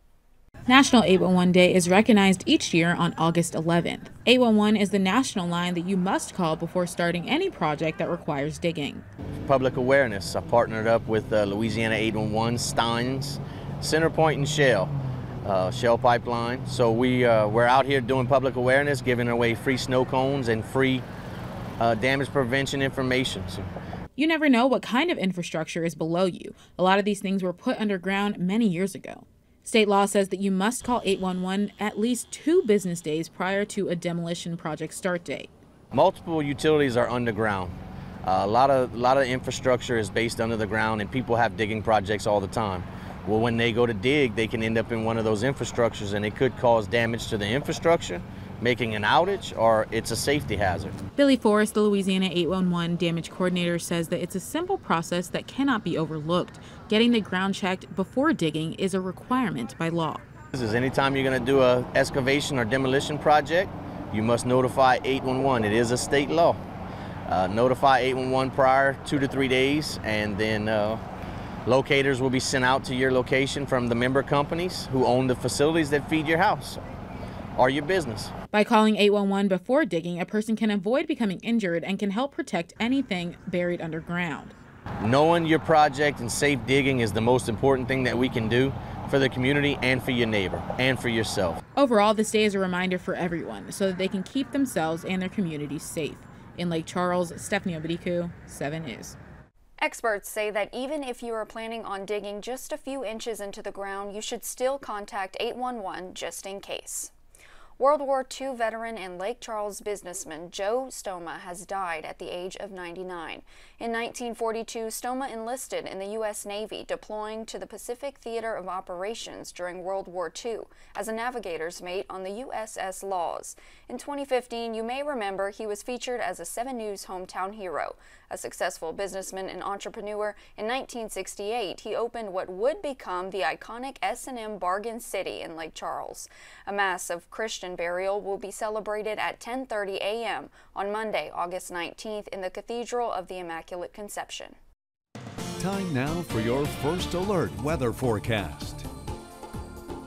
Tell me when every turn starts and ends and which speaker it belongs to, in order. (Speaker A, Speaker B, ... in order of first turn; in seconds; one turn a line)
Speaker A: 0.7-9.1
Speaker B: 9.5-14.9
Speaker B: 15.4-21.0
Speaker B: 21.8-23.7
Speaker A: 24.2-35.5
Speaker B: 35.9-37.7
Speaker B: 38.3-51.0
Speaker A: 51.2-60.2
Speaker B: 60.5-66.6
Speaker B: 67.3-71.0
Speaker B: 71.7-76.8
Speaker B: 77.6-78.3
Speaker A: 78.5-84.5
Speaker B: 85.0-91.6
Speaker A: 91.8-99.2
Speaker C: 99.8-107.1
Speaker C: 107.8-144.6
Speaker D: 145.6-148.9